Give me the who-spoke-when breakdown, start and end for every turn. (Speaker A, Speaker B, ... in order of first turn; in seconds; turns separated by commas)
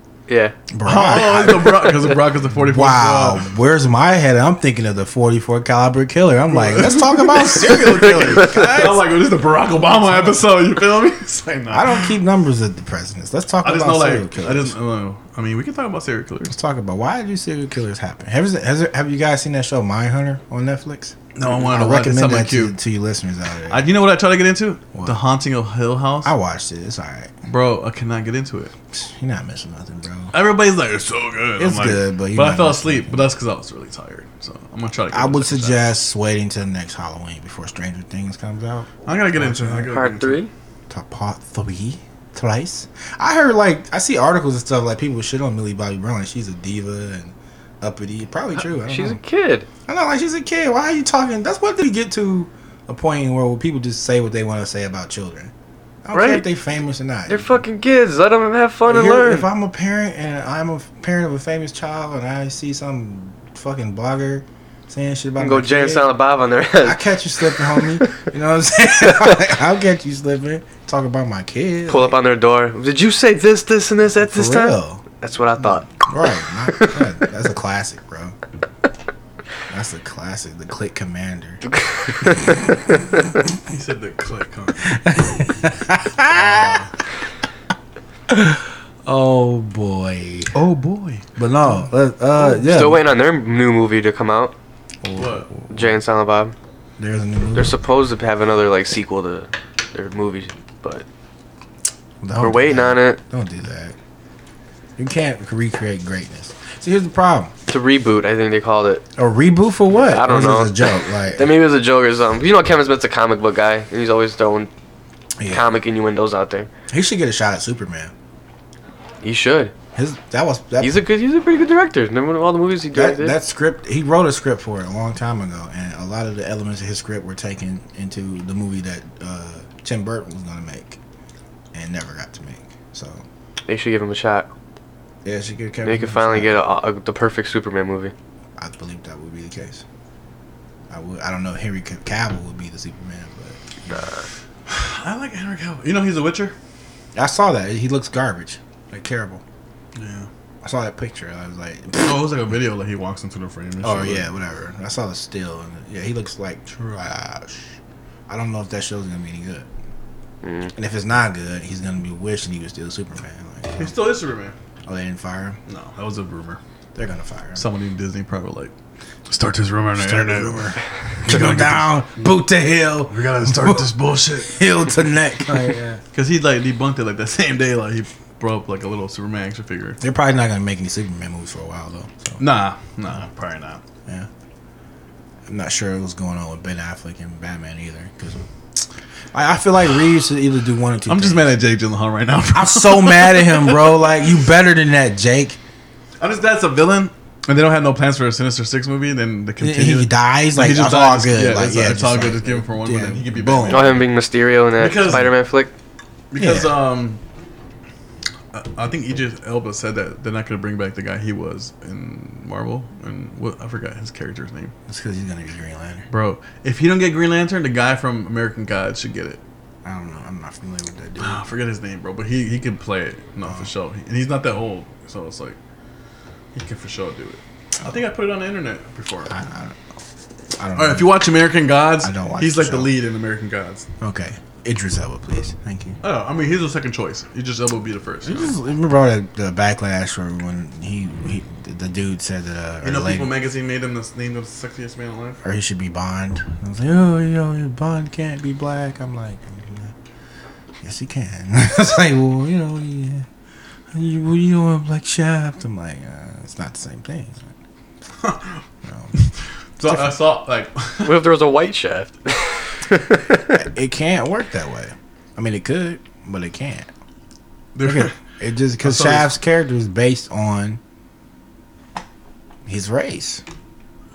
Speaker A: 0.3-0.6, Speaker B: 0.7-1.9, Speaker C: 0.8-3.4, Speaker B: 2.5-9.0, Speaker C: 6.5-12.1, Speaker A: 7.9-8.9, Speaker B: 10.0-10.3, Speaker B: 11.7-14.7, Speaker C: 13.6-16.6, Speaker B: 16.5-23.9, Speaker C: 21.4-22.8, Speaker C: 23.7-26.3, Speaker B: 24.9-25.2, Speaker B: 26.2-27.3, Speaker C: 27.4-28.7, Speaker B: 28.9-30.3, Speaker C: 30.3-35.8, Speaker B: 31.6-33.2, Speaker B: 35.1-39.9, Speaker C: 39.0-40.4, Speaker A: 39.9-40.5, Speaker B: 40.9-49.2, Speaker A: 48.8-49.7, Speaker B: 49.9-55.5, Speaker B: 56.0-57.6, Speaker A: 56.1-56.5, Speaker A: 57.3-59.5, Speaker B: 58.9-66.1, Speaker A: 65.4-68.2, Speaker B: 66.8-72.2, Speaker A: 71.9-75.9, Speaker B: 74.1-75.0, Speaker B: 75.6-78.3, Speaker A: 76.7-77.0, Speaker B: 79.7-81.6, Speaker A: 81.8-82.5, Speaker C: 83.7-85.0, Speaker B: 84.9-86.8, Speaker C: 86.3-86.9, Speaker B: 88.3-90.5, Speaker C: 90.5-91.2, Speaker B: 91.3-93.0, Speaker A: 92.3-94.5, Speaker B: 95.0-95.9, Speaker C: 95.2-95.5, Speaker A: 95.7-96.5, Speaker B: 97.0-97.8, Speaker A: 97.5-101.0, Speaker B: 102.2-104.0, Speaker A: 102.4-103.2, Speaker B: 105.0-107.5, Speaker A: 107.7-109.0, Speaker B: 109.2-111.5, Speaker A: 110.0-114.7, Speaker B: 115.4-115.6, Speaker A: 115.5-116.7, Speaker B: 116.9-118.1, Speaker A: 119.2-119.7, Speaker B: 119.9-121.0, Speaker A: 120.8-123.3, Speaker B: 122.9-131.0, Speaker B: 131.7-133.2, Speaker A: 133.7-134.5, Speaker B: 135.2-136.6, Speaker A: 135.8-138.1, Speaker B: 138.6-139.8, Speaker B: 140.9-144.1, Speaker A: 143.9-144.2, Speaker C: 144.7-146.5, Speaker B: 147.1-149.4, Speaker C: 149.9-150.3, Speaker B: 150.6-152.1, Speaker C: 152.0-154.3, Speaker B: 153.8-157.8, Speaker B: 158.3-159.7, Speaker A: 160.4-160.7, Speaker B: 160.7-163.9, Speaker C: 163.8-164.6, Speaker B: 164.8-165.6, Speaker C: 165.7-166.6, Speaker B: 166.9-167.6, Speaker C: 167.6-168.7, Speaker C: 169.3-172.3, Speaker B: 169.9-176.0, Speaker C: 173.1-174.8, Speaker C: 176.1-180.0, Speaker B: 180.0-182.4, Speaker C: 182.4-183.8, Speaker B: 185.5-191.5, Speaker C: 191.1-194.0, Speaker B: 192.5-195.6, Speaker C: 196.2-204.1, Speaker B: 199.6-204.1, Speaker A: 203.7-205.7, Speaker C: 204.8-205.3, Speaker C: 206.3-207.2, Speaker B: 206.3-206.7, Speaker C: 208.5-214.7, Speaker B: 214.9-216.1, Speaker C: 216.1-219.4, Speaker B: 219.8-221.4, Speaker C: 221.2-225.6, Speaker C: 226.5-229.3, Speaker B: 229.3-229.8, Speaker B: 230.6-231.1, Speaker C: 230.8-233.9, Speaker B: 232.0-232.9, Speaker B: 234.0-236.0, Speaker C: 236.0-238.6, Speaker B: 238.2-243.3, Speaker C: 242.8-245.4, Speaker B: 245.4-249.9, Speaker B: 250.8-253.3, Speaker B: 253.9-257.5, Speaker C: 258.2-258.6, Speaker B: 258.8-259.1, Speaker C: 259.8-261.2, Speaker B: 259.8-260.1, Speaker A: 261.0-263.4, Speaker B: 263.5-266.9, Speaker C: 267.7-268.2, Speaker B: 267.8-270.8, Speaker C: 268.8-269.3, Speaker B: 272.6-273.4